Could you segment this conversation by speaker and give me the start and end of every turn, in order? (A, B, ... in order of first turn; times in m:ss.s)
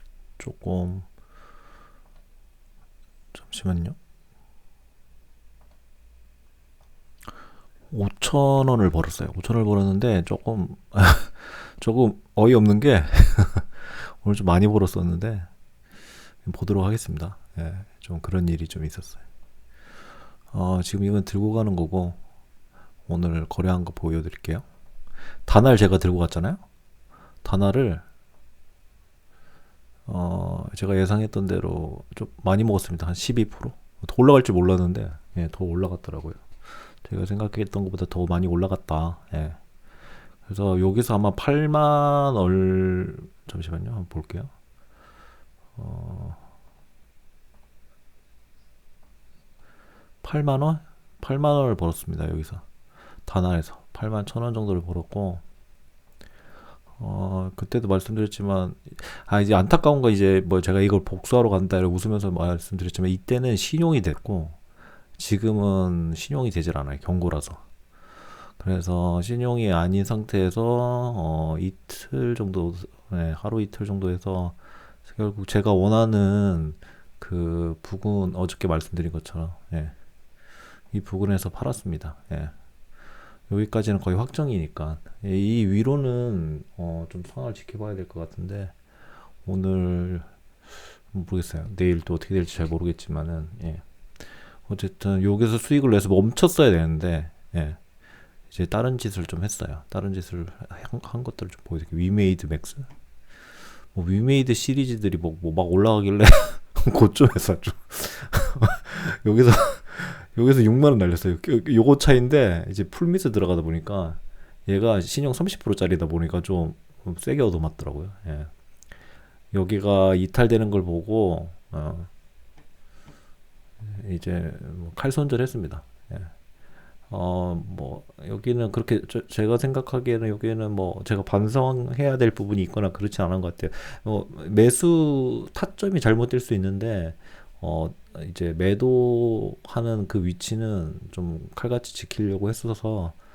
0:00.4-0:01.1 A
0:03.3-0:04.0 A
0:07.9-0:15.5 A
0:16.4-0:19.2 A
0:20.5-0:22.2 A
0:23.1-0:24.6 A
0:25.5-0:26.6 A
0:27.4-0:28.0 A
0:30.1-0:36.5 A
0:37.0-0:39.6 A
0:40.5-0:44.5 A
0:45.8-0:46.4 A
0:50.2-0:52.6 A
0:53.3-0:55.4 A
0:57.0-1:04.6 A
1:05.2-1:07.6 A
1:08.6-1:14.6 A
1:15.1-1:20.0 A
1:20.9-1:22.5 A
1:23.5-1:28.7 A
1:29.4-1:30.3 A
1:31.1-1:33.8 A
1:34.7-1:37.8 A
1:38.5-1:42.9 A
1:43.9-1:58.5 A
1:59.5-2:02.1 A
2:03.8-2:06.3 A
2:07.1-2:23.2 A